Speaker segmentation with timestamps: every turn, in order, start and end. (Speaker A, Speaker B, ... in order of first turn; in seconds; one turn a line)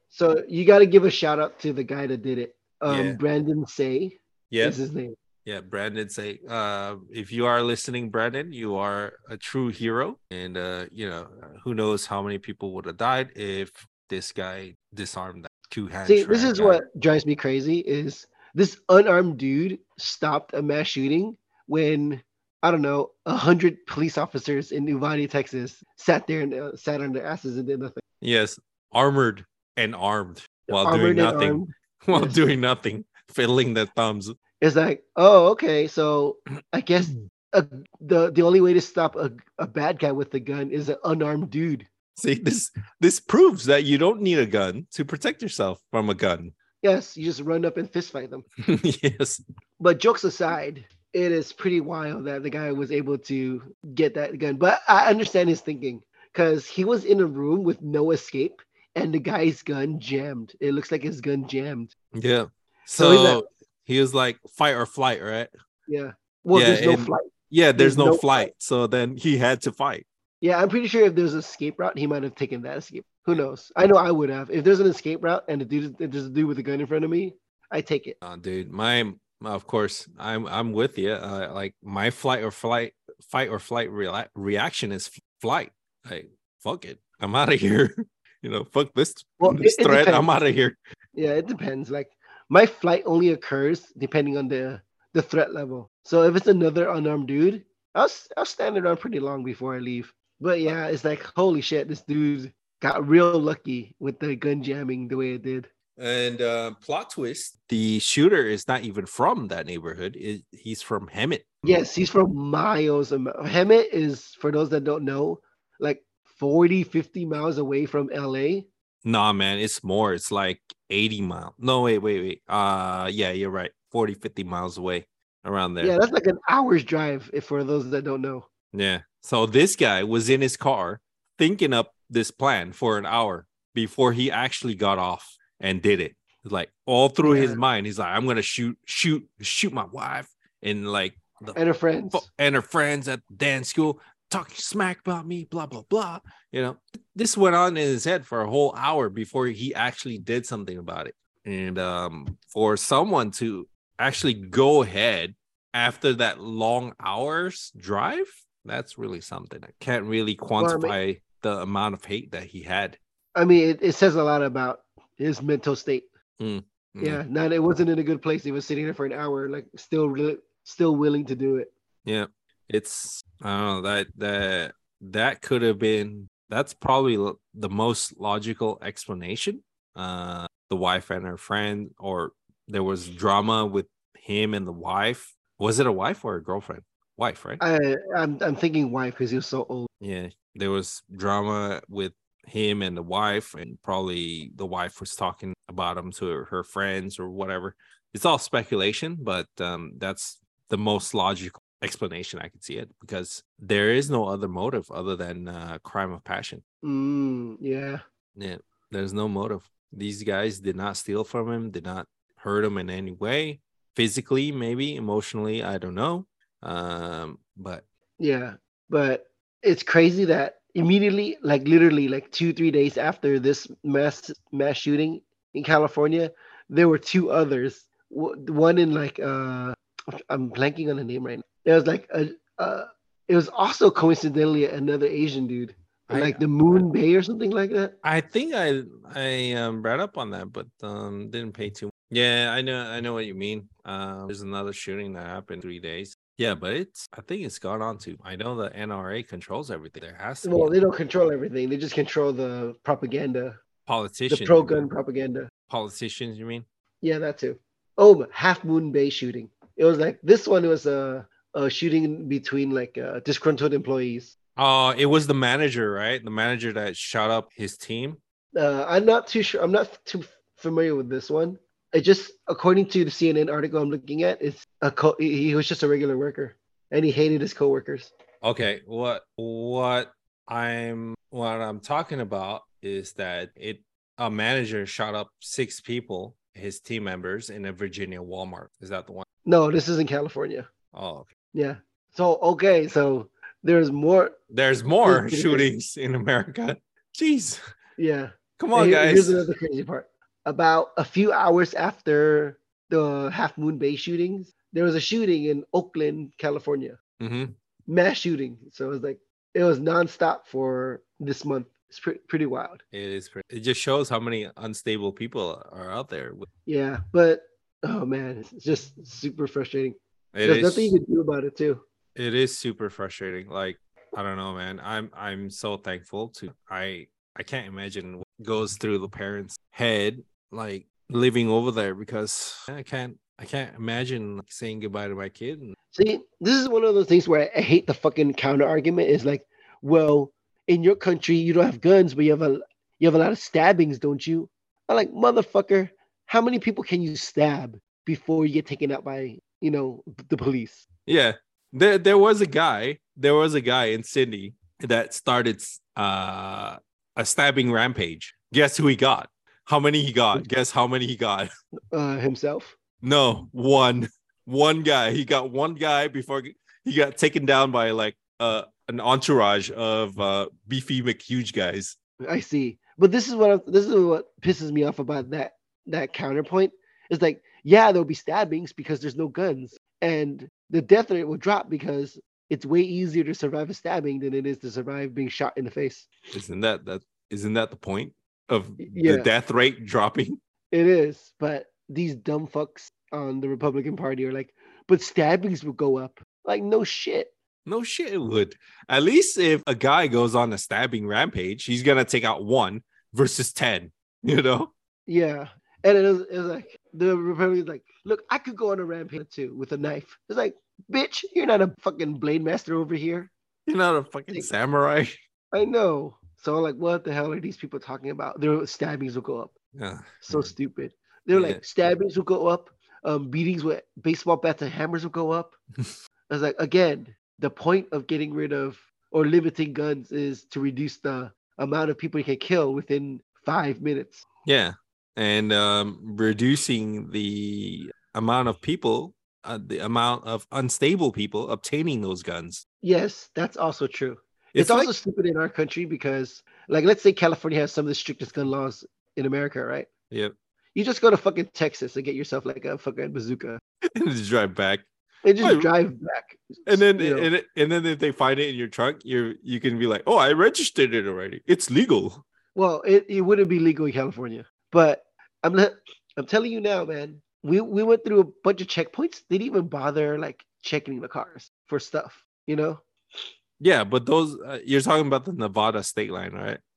Speaker A: 0.1-5.1
Speaker B: 2.9-3.2
Speaker B: 4.5-4.8
Speaker B: 5.4-16.8
Speaker A: 16.1-28.0
Speaker B: 28.2-34.3
Speaker A: 30.7-32.4
Speaker A: 34.6-41.9
Speaker B: 42.2-46.5
Speaker A: 46.8-48.4
Speaker B: 48.6-49.4
Speaker A: 49.8-61.9
Speaker B: 62.1-65.5
Speaker A: 63.0-63.4
Speaker A: 65.9-68.5
Speaker B: 66.5-70.0
Speaker A: 70.4-78.2
Speaker B: 78.2-90.8
Speaker A: 89.4-90.3
Speaker A: 91.1-105.7
Speaker B: 106.0-111.8
Speaker A: 111.6-118.7
Speaker B: 119.0-125.9
Speaker A: 125.8-128.5
Speaker B: 128.7-141.6
Speaker A: 137.2-137.6
Speaker A: 141.5-142.2
Speaker B: 142.1-163.0
Speaker A: 160.6-160.9
Speaker A: 163.3-166.1
Speaker B: 166.4-167.2
Speaker A: 167.0-171.7
Speaker B: 172.0-187.6
Speaker A: 187.6-189.9
Speaker B: 190.0-206.6
Speaker A: 206.8-208.0
Speaker B: 208.3-217.8
Speaker A: 218.2-237.9
Speaker B: 236.1-236.9
Speaker B: 238.0-250.8
Speaker A: 250.4-253.6
Speaker B: 253.8-254.9
Speaker A: 254.3-255.5
Speaker B: 255.7-256.6
Speaker A: 257.0-264.3
Speaker B: 264.6-268.2
Speaker A: 268.5-278.1
Speaker B: 278.4-289.2
Speaker A: 289.4-290.7
Speaker B: 290.9-291.3
Speaker A: 291.5-294.4
Speaker B: 294.5-297.6
Speaker A: 295.0-295.7
Speaker A: 298.0-307.0
Speaker B: 298.6-299.4
Speaker B: 307.2-307.5
Speaker A: 307.9-312.8
Speaker B: 312.9-316.5
Speaker A: 316.6-321.8
Speaker B: 320.3-321.0
Speaker B: 322.1-335.8
Speaker A: 335.9-350.8
Speaker B: 351.1-361.5
Speaker A: 361.9-362.7
Speaker B: 363.0-371.9
Speaker A: 372.2-386.1
Speaker B: 386.3-390.4
Speaker A: 388.8-389.3
Speaker A: 390.7-397.3
Speaker B: 397.6-404.7
Speaker A: 405.1-413.3
Speaker B: 413.7-415.1
Speaker A: 415.5-419.5
Speaker B: 419.7-420.5
Speaker A: 420.2-425.6
Speaker B: 421.3-421.6
Speaker A: 426.3-434.2
Speaker B: 434.4-442.6
Speaker A: 442.8-449.9
Speaker B: 444.5-444.9
Speaker A: 450.7-453.6
Speaker B: 453.9-454.9
Speaker A: 455.2-457.3
Speaker B: 455.4-455.7
Speaker B: 456.7-462.2
Speaker A: 462.5-472.8
Speaker B: 473.6-476.6